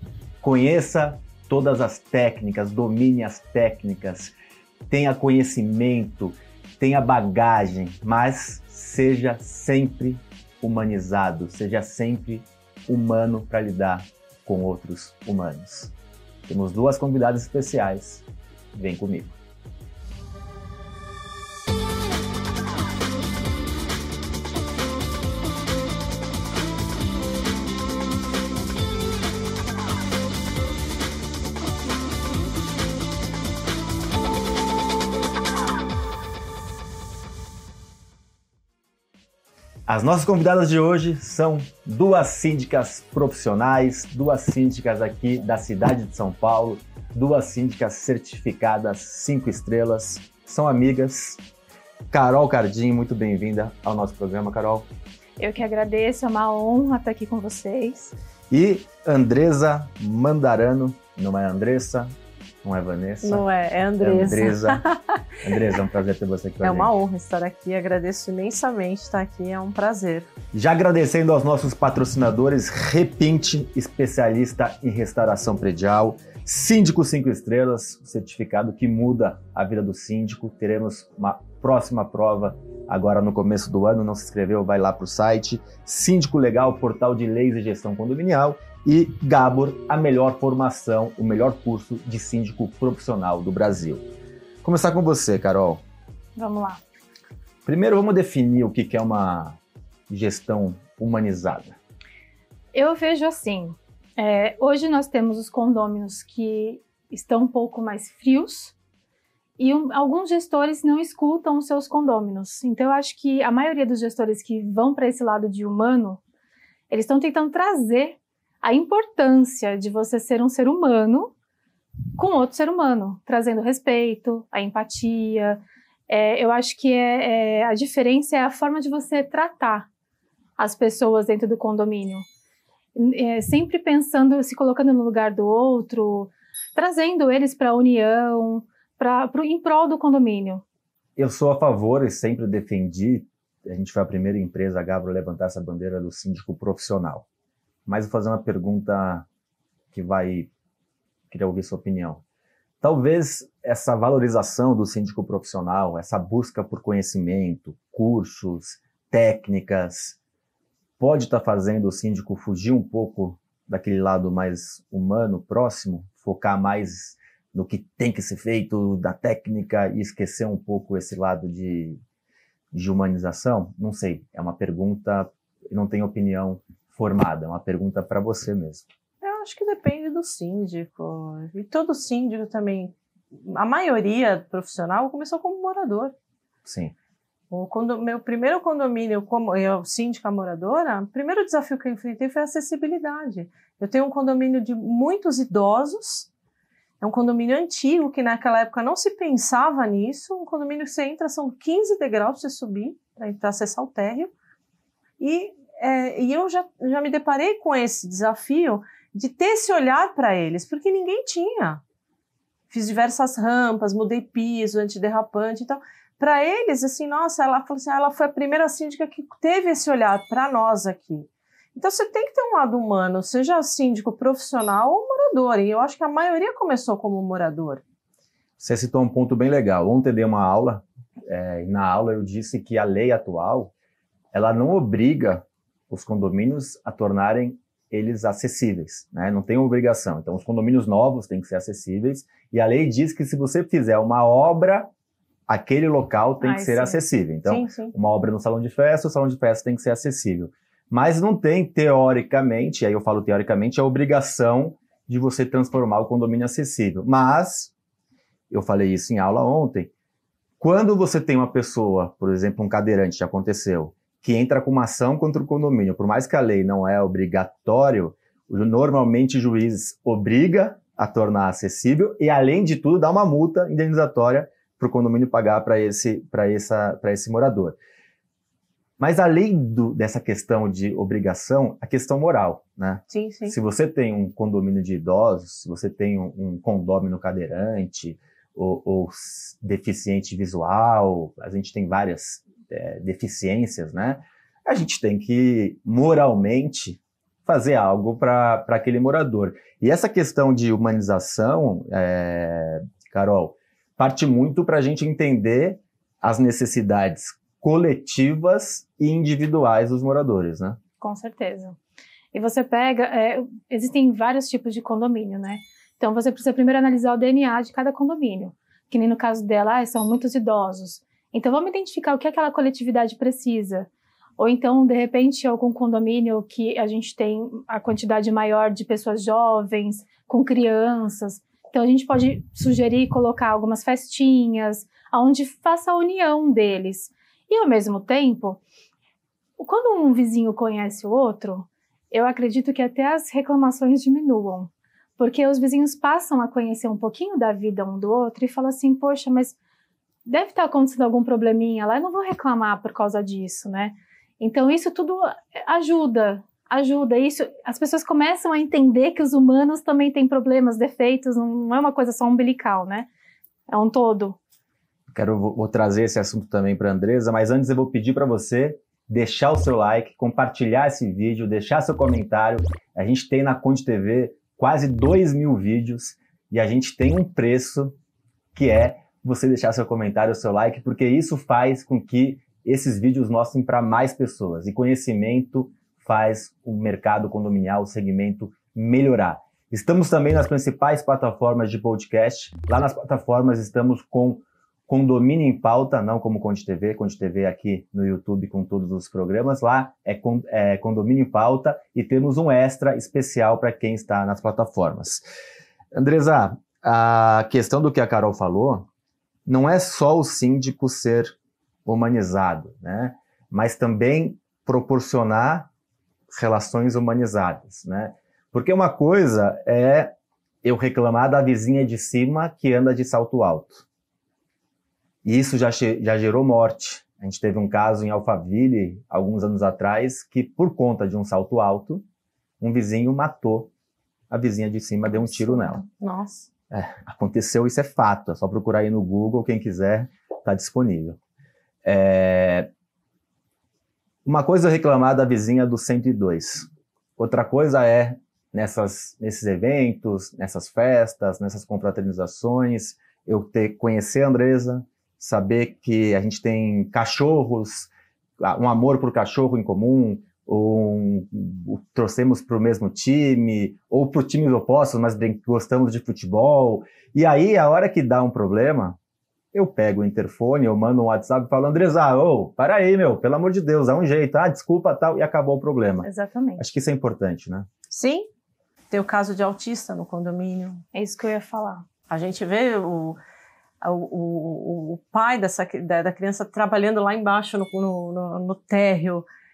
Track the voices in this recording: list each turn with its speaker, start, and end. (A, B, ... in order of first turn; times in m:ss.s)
0:00.4-0:04.3 A
0:04.9-0:15.9 A
0:16.5-0:19.4 A
0:39.9-0:51.4 A
0:52.1-0:54.9 A
0:55.4-0:58.2 B
0:58.5-1:02.1 A
1:02.6-1:03.4 A
1:03.2-1:05.2 C
1:04.0-1:04.8 A
1:05.4-1:06.9 A
1:06.6-1:10.3 C
1:10.5-1:34.0 A
1:34.6-1:35.8 A
1:36.4-1:36.8 B
1:37.6-1:41.8 A
1:42.7-1:48.7 B
1:49.6-1:56.2 B
1:56.9-2:01.3 B
2:02.2-2:09.9 B
2:10.6-2:12.2 B
2:13.0-2:20.6 B
2:21.2-2:27.3 A
2:27.9-2:29.3 A
2:29.9-2:30.5 A
2:31.3-2:32.2 A
2:32.8-2:40.2 A
2:41.0-2:52.0 A
2:52.7-2:58.9 A
2:59.2-3:06.1 C
3:06.6-3:06.9 A
3:07.5-3:16.3 C
3:17.0-3:24.3 C
3:25.2-3:31.8 C
3:32.7-3:47.8 C
3:48.6-3:53.7 A
3:54.3-4:04.9 A
4:05.5-4:17.7 A
4:06.4-4:07.0 B
4:07.4-4:08.0 C
4:18.5-4:19.9 A
4:20.6-4:37.8 A
4:39.0-5:10.8 A
4:43.1-4:43.6 C
5:11.0-5:11.8 B
5:12.3-5:38.6 B
5:39.6-5:49.6 B
5:50.3-6:03.1 B
6:03.7-6:04.4 B
6:05.1-6:17.9 A
6:18.5-6:45.2 A
6:45.9-6:48.9 A
6:49.5-6:51.4 A
6:51.9-6:55.7 A
6:56.3-7:00.1 A
7:00.6-7:03.9 A
7:05.2-7:12.0 A
7:12.6-7:13.7 A
7:14.3-7:15.8 A
7:15.3-7:16.5 C
7:16.7-7:21.2 A
7:21.8-7:22.7 A
7:24.2-7:49.0 A
7:49.5-7:57.7 A
7:56.0-7:56.6 B
7:57.9-7:58.2 C
7:58.9-8:00.8 C
8:00.9-8:01.8 B
8:02.1-8:03.2 C
8:03.8-8:09.2 C